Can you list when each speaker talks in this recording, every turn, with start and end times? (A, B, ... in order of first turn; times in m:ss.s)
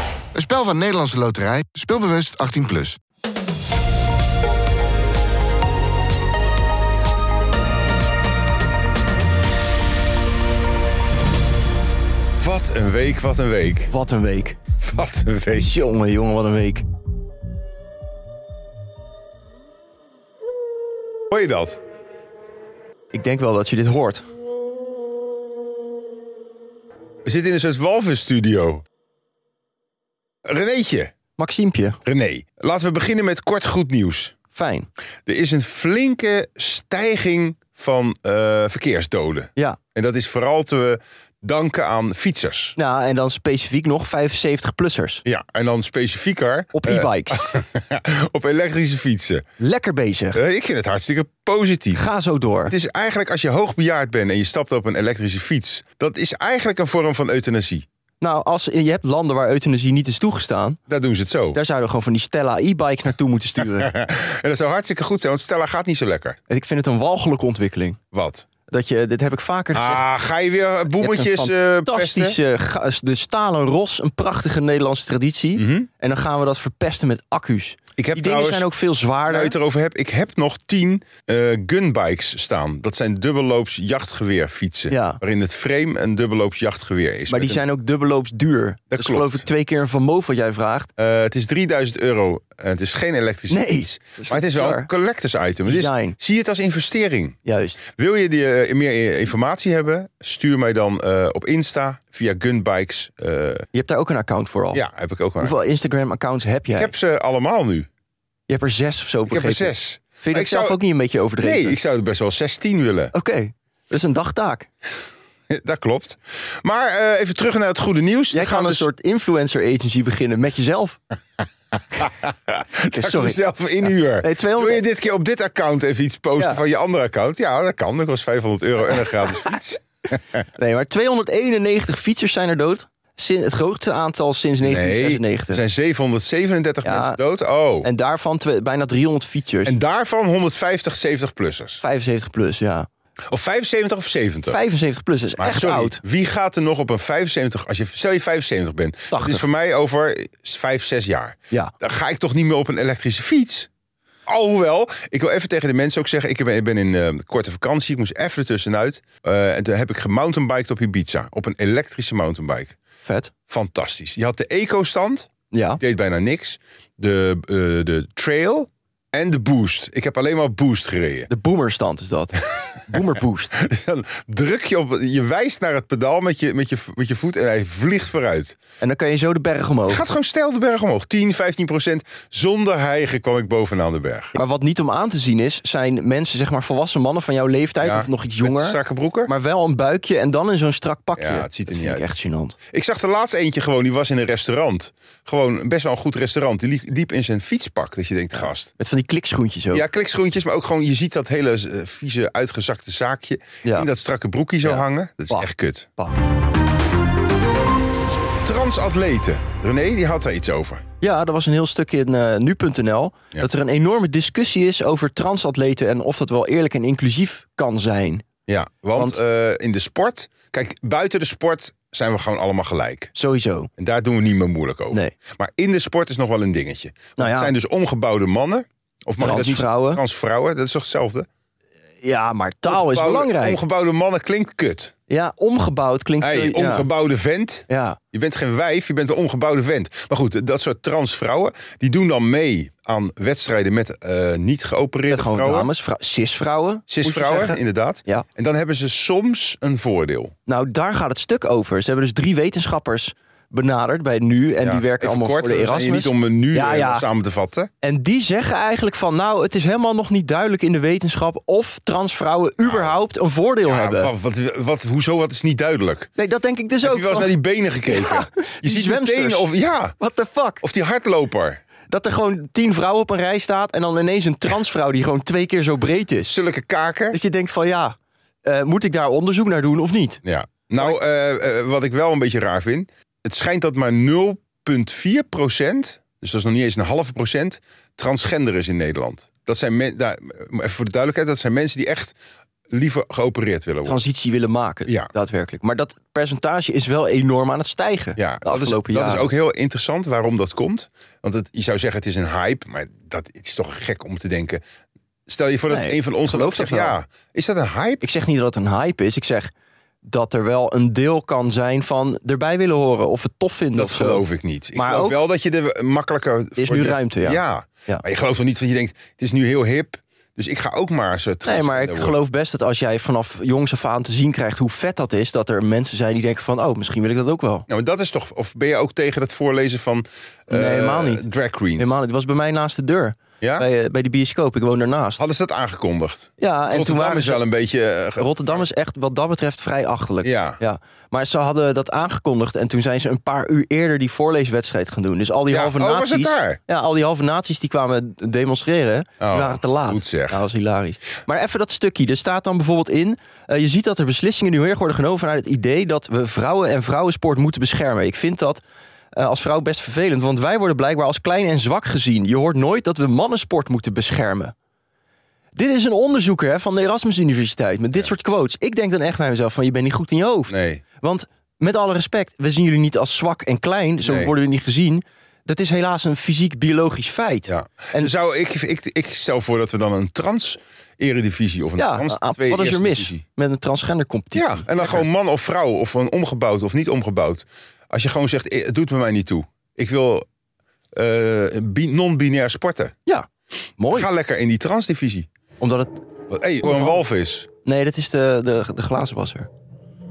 0:00.3-0:03.0 A
0:12.4-0:13.9 B
0:13.9-0:14.6 C
0:14.8-0:15.7 B
0:15.5-0:16.8 C
0:21.3-0:21.8 B
0:23.1-0:24.2 C
0:27.2-0:28.8 B
0:30.4-0:31.1 B
0:31.4-0:32.0 C
0:32.0-0:34.3 B
0:34.5-0:34.9 C
0:35.2-0:42.8 B
0:42.8-0:45.2 C
0:45.2-0:49.4 B
0:46.7-0:47.6 C
0:49.6-0:50.4 C
0:50.3-0:52.0 B
0:51.9-0:52.7 C
0:52.6-0:57.8 B
0:58.2-1:00.8 C
1:00.9-1:01.6 B
1:01.5-1:03.9 C
1:03.6-1:06.4 B
1:06.5-1:08.0 C
1:08.1-1:08.4 B
1:08.7-1:10.0 C
1:09.7-1:12.4 B
1:11.0-1:19.5 C
1:15.6-1:15.9 B
1:18.0-1:18.7 B
1:19.3-1:27.6 B
1:24.9-1:25.2 C
1:27.3-1:30.9 C
1:28.9-1:29.4 B
1:31.0-1:43.7 B
1:33.5-1:34.9 C
1:35.6-1:36.2 C
1:37.4-1:37.8 C
1:43.7-1:44.8 C
1:44.7-1:45.5 B
1:45.4-1:46.9 C
1:46.7-1:47.9 B
1:48.5-1:51.8 C
1:49.3-1:50.8 B
1:51.4-1:53.1 B
1:53.1-1:54.7 C
1:55.5-1:58.9 B
1:58.3-2:01.0 C
2:01.9-2:09.8 B
2:02.9-2:04.8 C
2:10.6-2:15.6 C
2:14.6-2:17.9 B
2:16.8-2:17.2 C
2:17.8-2:19.8 C
2:19.6-2:21.8 B
2:21.8-2:22.9 C
2:23.3-2:24.6 B
2:24.5-2:26.0 C
2:25.4-2:33.7 B
2:29.1-2:29.4 C
2:34.3-2:42.8 B
2:43.0-2:43.3 C
2:43.5-2:51.3 B
2:45.5-2:45.8 C
2:51.3-2:53.6 C
2:53.5-2:58.6 B
2:58.8-3:00.0 C
2:59.9-3:04.3 B
3:04.3-3:12.6 C
3:07.8-3:09.3 B
3:11.2-3:12.0 B
3:12.7-3:18.7 B
3:18.4-3:19.8 C
3:19.7-3:25.9 B
3:24.6-3:26.1 C
3:28.4-3:30.8 B
3:31.0-3:38.2 C
3:38.5-3:43.1 B
3:43.1-3:43.7 C
3:43.8-3:51.3 B
3:47.2-3:47.5 C
3:49.2-3:50.0 C
3:52.0-3:53.6 C
3:52.7-3:54.9 B
3:55.1-3:56.9 C
3:56.2-4:05.7 B
3:57.7-3:58.0 C
4:05.1-4:08.2 C
4:06.9-4:10.3 B
4:10.5-4:17.0 C
4:14.6-4:17.7 B
4:17.8-4:24.1 C
4:22.6-4:22.9 B
4:23.6-4:26.1 B
4:26.2-4:27.3 C
4:26.8-4:30.0 B
4:27.9-4:29.5 C
4:30.0-4:30.6 C
4:30.6-4:31.6 B
4:31.9-4:36.3 C
4:36.2-4:37.2 B
4:37.1-4:40.2 C
4:40.2-4:52.1 B
4:52.7-4:54.0 B
4:53.8-4:59.3 C
4:58.2-5:04.6 B
5:05.3-5:08.0 B
5:05.7-5:07.0 C
5:08.0-5:09.5 C
5:10.0-5:14.2 C
5:13.7-5:22.2 B
5:14.7-5:15.2 C
5:16.6-5:18.0 C
5:21.4-5:27.7 C
5:27.7-5:32.0 B
5:30.5-5:31.2 C
5:31.8-5:35.2 C
5:33.4-5:33.6 B
5:35.2-5:38.6 B
5:36.4-5:37.4 C
5:38.2-5:58.6 C
5:40.2-5:40.6 B
5:45.5-5:46.6 B
5:49.2-5:50.4 B
5:59.1-6:04.5 C
6:05.5-6:18.1 C
6:10.5-6:10.8 B
6:14.0-6:14.3 B
6:17.5-6:23.2 B
6:21.8-6:25.0 C
6:24.3-6:30.2 B
6:30.9-6:33.0 B
6:33.0-6:34.1 C
6:33.9-6:35.3 B
6:35.6-6:36.0 C
6:36.3-6:37.5 B
6:36.6-6:37.0 C
6:37.6-6:39.5 C